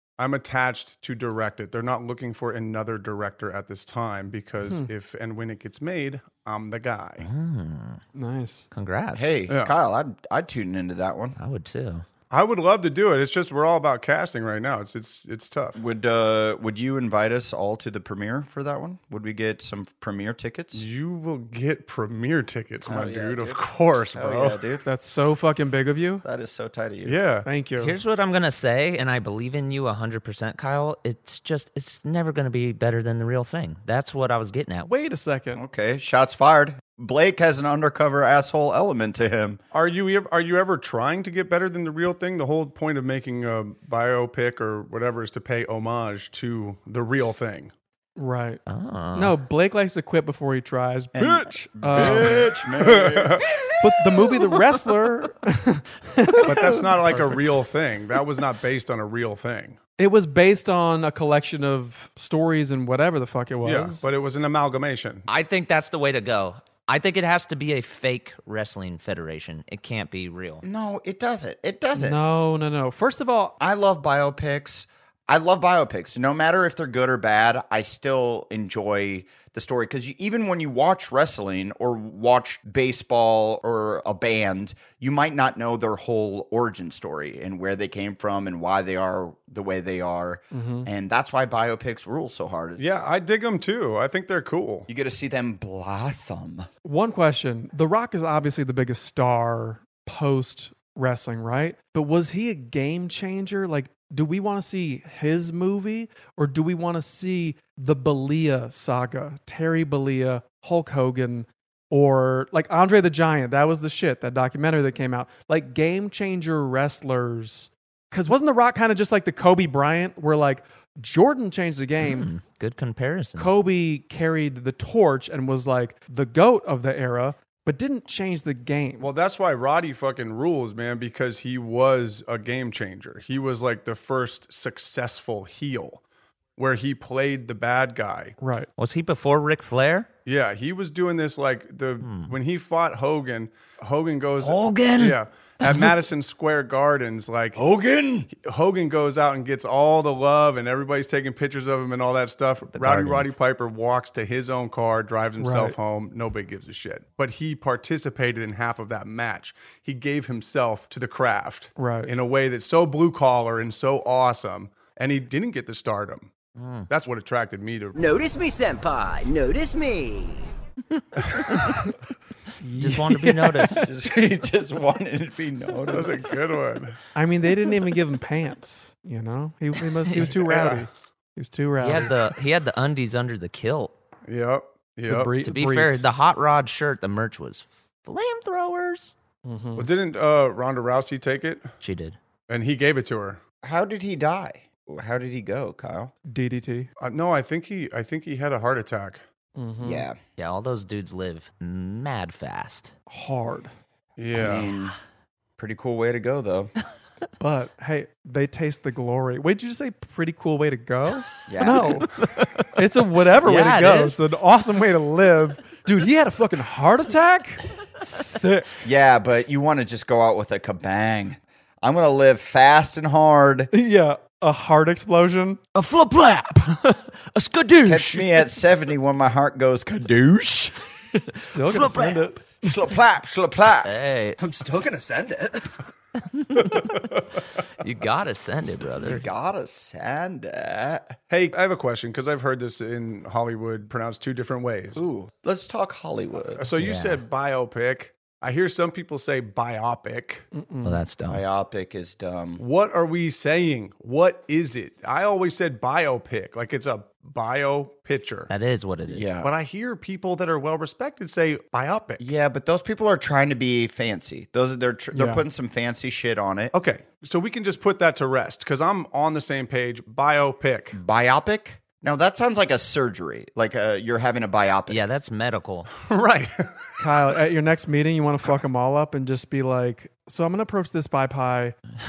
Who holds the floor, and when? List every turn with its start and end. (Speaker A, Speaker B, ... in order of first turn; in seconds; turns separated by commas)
Speaker A: 0.2-7.3, Speaker B: 4.6-4.9, Speaker C: 7.2-8.0, Speaker B: 8.1-8.7, Speaker C: 8.7-9.3, Speaker D: 9.1-11.3, Speaker C: 11.3-12.0, Speaker A: 12.3-15.8, Speaker D: 15.8-20.8, Speaker A: 20.7-24.6, Speaker D: 22.9-24.8, Speaker B: 24.8-26.2, Speaker D: 26.2-27.1, Speaker A: 27.0-27.5, Speaker B: 27.4-27.9, Speaker C: 27.8-34.9, Speaker B: 34.8-35.6, Speaker D: 35.5-39.6, Speaker A: 39.7-47.7, Speaker B: 48.2-48.6, Speaker C: 48.7-49.4, Speaker B: 49.1-52.5, Speaker D: 51.1-53.4, Speaker A: 51.9-53.4, Speaker B: 53.8-57.4, Speaker A: 56.4-59.8, Speaker B: 60.0-64.0, Speaker A: 63.6-65.2, Speaker C: 65.3-70.6, Speaker D: 70.6-72.2, Speaker B: 71.9-73.6, Speaker D: 73.6-92.8, Speaker B: 90.5-90.9, Speaker A: 92.8-94.9, Speaker D: 94.9-96.7, Speaker B: 96.8-122.3, Speaker C: 122.0-123.5, Speaker B: 123.4-129.1, Speaker A: 129.0-136.0, Speaker A: 136.6-138.3, Speaker B: 138.4-138.7, Speaker C: 138.8-140.1, Speaker A: 140.2-147.6, Speaker C: 142.0-142.3, Speaker C: 144.4-145.9, Speaker D: 147.6-148.3, Speaker A: 148.3-166.3, Speaker C: 152.7-153.3, Speaker B: 155.4-155.8, Speaker B: 161.8-162.1, Speaker C: 166.6-166.9, Speaker A: 166.9-168.0, Speaker E: 167.9-170.5, Speaker B: 172.6-173.8, Speaker C: 172.8-173.9, Speaker D: 173.8-176.2, Speaker A: 175.9-177.0, Speaker B: 177.1-182.1, Speaker A: 180.2-180.8, Speaker C: 181.8-183.9, Speaker A: 184.3-185.3, Speaker B: 185.1-186.2, Speaker C: 185.4-189.1, Speaker B: 189.4-189.9, Speaker A: 189.8-191.7, Speaker C: 191.8-192.2, Speaker A: 192.5-193.4, Speaker D: 193.6-196.1, Speaker B: 196.3-196.9, Speaker A: 197.0-199.2, Speaker B: 199.6-200.1, Speaker D: 199.8-200.2, Speaker C: 200.4-202.9, Speaker B: 203.1-203.7, Speaker A: 204.2-204.7, Speaker D: 204.3-204.9, Speaker D: 205.6-206.7, Speaker B: 207.4-212.1, Speaker D: 211.5-212.1, Speaker B: 212.7-218.7, Speaker C: 213.4-214.2, Speaker D: 218.8-223.7, Speaker B: 223.7-225.6, Speaker C: 225.7-228.6, Speaker D: 227.8-230.7, Speaker B: 231.3-232.5, Speaker C: 231.6-232.3, Speaker D: 232.6-235.7, Speaker C: 233.8-234.4, Speaker C: 236.3-237.2, Speaker C: 237.8-239.2, Speaker D: 239.0-241.2, Speaker A: 241.3-245.0, Speaker D: 244.9-246.7, Speaker A: 246.6-250.4, Speaker C: 246.8-247.2, Speaker B: 250.5-251.0, Speaker C: 250.8-251.4, Speaker D: 251.3-252.6, Speaker A: 252.6-258.5, Speaker C: 258.5-259.3, Speaker D: 259.1-259.5, Speaker A: 259.4-262.2, Speaker D: 262.2-266.7, Speaker B: 265.1-265.4, Speaker A: 266.7-271.0, Speaker D: 270.9-275.0, Speaker C: 274.9-275.9, Speaker A: 276.0-276.7, Speaker B: 277.0-281.8